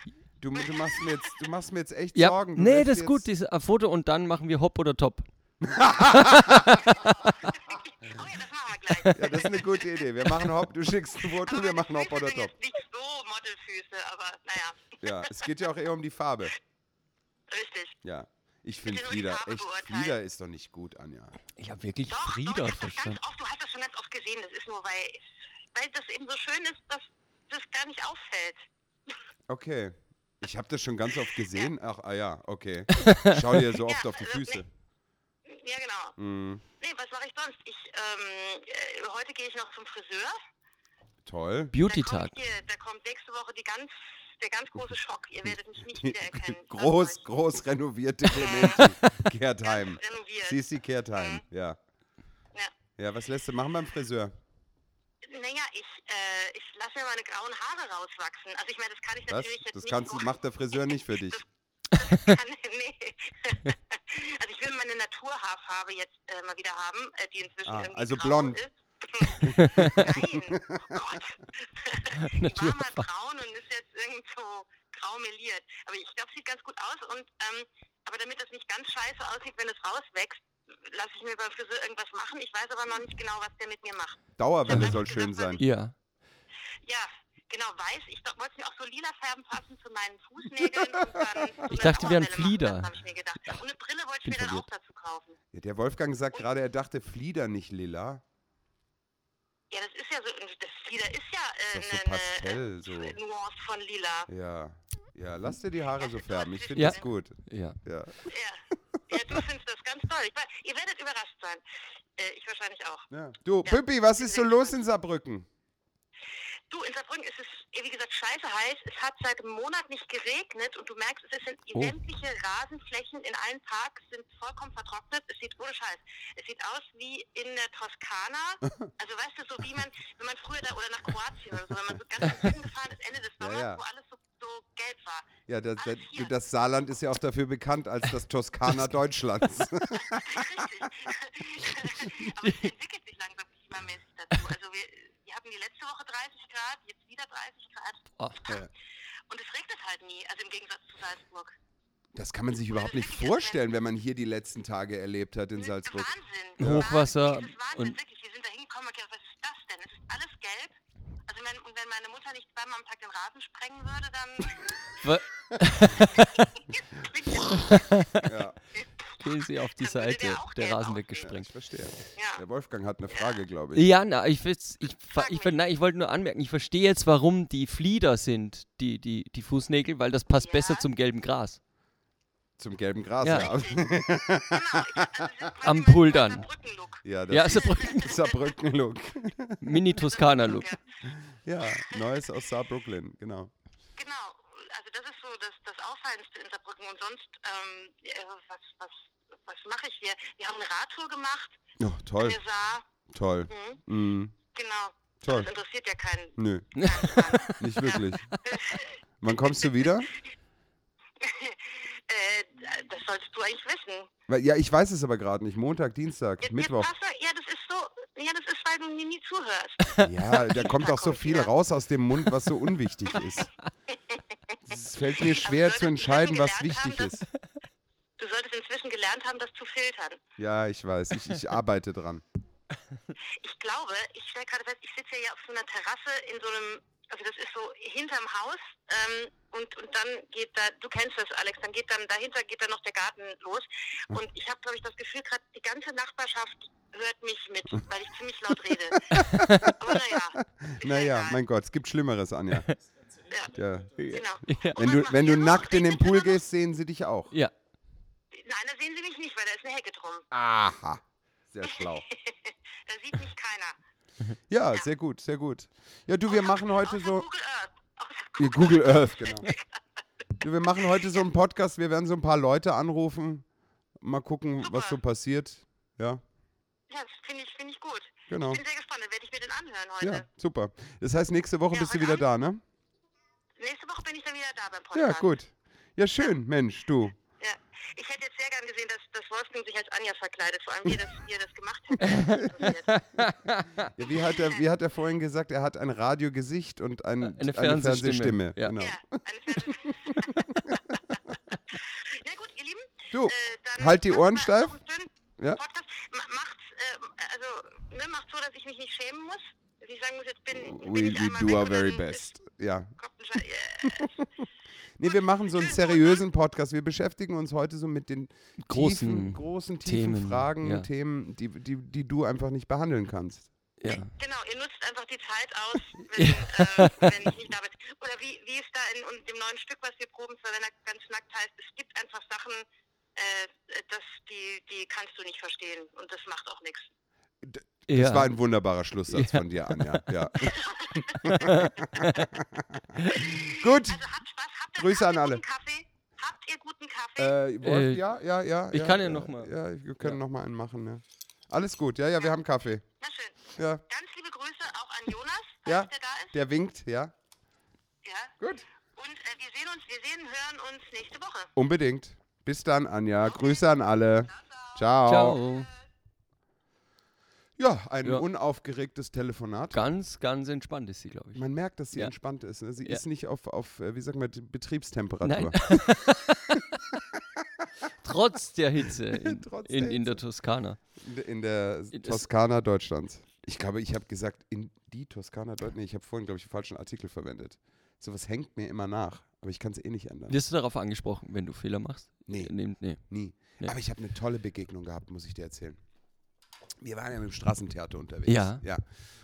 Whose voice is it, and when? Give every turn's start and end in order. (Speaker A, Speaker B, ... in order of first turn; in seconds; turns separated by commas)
Speaker A: 0.4-3.2, Speaker B: 0.6-1.2, Speaker C: 2.1-5.3, Speaker A: 5.6-7.0, Speaker C: 6.1-7.3, Speaker B: 7.4-10.1, Speaker C: 8.9-9.4, Speaker A: 9.1-12.5, Speaker B: 11.3-15.5, Speaker A: 15.0-16.6, Speaker B: 17.5-18.0, Speaker A: 18.0-21.4, Speaker B: 18.8-20.2, Speaker C: 21.6-23.2, Speaker B: 22.1-29.1, Speaker A: 29.5-34.7, Speaker C: 32.9-33.4, Speaker B: 33.8-34.6, Speaker B: 35.5-36.1, Speaker A: 36.2-36.6, Speaker B: 36.8-40.4, Speaker A: 41.2-41.7, Speaker C: 41.7-42.3, Speaker B: 41.9-47.2, Speaker A: 45.5-51.8, Speaker B: 48.3-48.9, Speaker C: 48.8-49.2, Speaker B: 49.6-50.6, Speaker B: 51.1-51.4, Speaker A: 53.0-54.4, Speaker B: 55.2-85.6, Speaker A: 59.3-61.4, Speaker C: 61.9-62.4, Speaker A: 67.7-68.6, Speaker A: 69.4-71.2, Speaker C: 69.4-70.1, Speaker C: 72.1-73.1, Speaker A: 84.4-85.6, Speaker C: 84.7-85.0, Speaker C: 85.6-85.9, Speaker B: 86.8-95.4, Speaker A: 90.6-91.4, Speaker C: 91.7-92.9, Speaker A: 94.2-94.7, Speaker A: 95.5-98.2, Speaker B: 99.7-104.3, Speaker A: 101.7-103.2, Speaker A: 104.3-108.3, Speaker B: 106.0-107.1, Speaker C: 106.8-107.8, Speaker B: 108.3-111.6, Speaker B: 112.2-113.1, Speaker A: 113.1-115.5, Speaker B: 113.7-114.8, Speaker B: 116.7-136.3, Speaker A: 133.4-133.8, Speaker A: 135.5-141.1, Speaker B: 139.9-148.7, Speaker B: 149.3-151.6, Speaker A: 152.1-156.9, Speaker B: 152.7-153.6, Speaker B: 155.6-160.8, Speaker C: 156.6-158.0, Speaker B: 161.3-164.7, Speaker C: 165.0-166.6, Speaker B: 166.1-167.9, Speaker C: 167.3-168.3, Speaker A: 168.2-168.6, Speaker B: 168.8-169.1, Speaker C: 169.2-171.5, Speaker B: 169.8-171.3, Speaker A: 171.2-173.9, Speaker B: 172.2-172.4, Speaker B: 173.1-173.4, Speaker C: 173.7-181.6, Speaker B: 175.1-175.6, Speaker B: 180.3-180.9, Speaker A: 182.6-185.5, Speaker C: 183.2-183.5, Speaker B: 183.3-183.8, Speaker B: 184.4-187.0, Speaker C: 185.6-186.5, Speaker A: 187.0-189.8, Speaker C: 187.3-188.2, Speaker B: 187.6-188.5, Speaker C: 189.6-190.8, Speaker B: 190.0-190.8, Speaker A: 191.1-193.5, Speaker B: 191.7-192.0, Speaker B: 194.0-201.6, Speaker A: 201.8-202.4, Speaker B: 202.2-202.9, Speaker A: 203.1-204.4, Speaker B: 203.5-203.8, Speaker B: 204.5-209.9, Speaker A: 205.2-205.5, Speaker A: 206.4-206.7, Speaker C: 206.8-208.4, Speaker A: 207.6-208.3, Speaker A: 209.2-210.1, Speaker B: 211.2-214.1, Speaker A: 214.3-216.9, Speaker B: 216.4-221.5, Speaker A: 220.0-223.5, Speaker B: 223.9-224.2, Speaker A: 224.7-227.2, Speaker B: 225.2-227.2, Speaker B: 228.2-230.2, Speaker A: 230.4-232.2, Speaker B: 233.4-251.4, Speaker C: 249.1-249.7, Speaker A: 249.1-252.7, Speaker B: 253.3-253.6, Speaker A: 253.5-254.1, Speaker C: 254.0-254.9, Speaker B: 254.1-256.4, Speaker A: 254.8-257.3, Speaker B: 258.3-260.3, Speaker A: 260.3-262.1, Speaker B: 261.6-263.8, Speaker A: 264.5-267.2, Speaker B: 266.3-269.8, Speaker A: 268.4-269.5, Speaker A: 270.4-273.5, Speaker A: 274.0-276.2, Speaker B: 274.6-275.0, Speaker B: 276.9-280.2, Speaker A: 278.3-278.6, Speaker A: 280.0-282.6, Speaker B: 281.7-282.2, Speaker B: 283.6-285.4, Speaker A: 284.9-287.2, Speaker B: 287.4-292.9, Speaker C: 292.0-293.9, Speaker A: 294.0-301.2, Speaker B: 294.2-294.6, Speaker C: 297.2-298.8, Speaker B: 298.8-312.3, Speaker A: 303.1-304.8, Speaker A: 310.5-312.9, Speaker B: 313.0-314.2, Speaker A: 313.8-314.1, Speaker A: 315.0-323.5, Speaker B: 315.1-316.2, Speaker C: 318.6-320.9, Speaker C: 323.8-324.1, Speaker B: 323.9-336.9, Speaker C: 326.0-327.3, Speaker A: 337.4-344.1, Speaker C: 337.9-338.3, Speaker C: 339.1-340.2, Speaker B: 340.4-341.3, Speaker C: 341.2-342.3, Speaker C: 343.0-343.2, Speaker B: 343.2-347.4, Speaker A: 344.8-345.4, Speaker A: 347.2-352.8, Speaker C: 347.6-348.1, Speaker C: 348.7-350.2, Speaker B: 353.0-356.3, Speaker A: 353.6-353.8, Speaker A: 355.7-357.1, Speaker B: 358.0-358.4, Speaker A: 358.4-358.6, Speaker B: 358.9-361.5, Speaker A: 361.6-365.4, Speaker C: 365.1-365.7, Speaker A: 367.6-369.8, Speaker C: 369.7-372.1, Speaker A: 371.4-375.8, Speaker C: 375.2-376.9, Speaker A: 377.1-377.7, Speaker C: 378.0-380.8, Speaker A: 378.9-380.2, Speaker A: 381.0-390.4, Speaker C: 381.9-382.2, Speaker C: 390.3-393.0, Speaker A: 392.3-395.8, Speaker A: 396.8-398.8, Speaker C: 398.3-398.6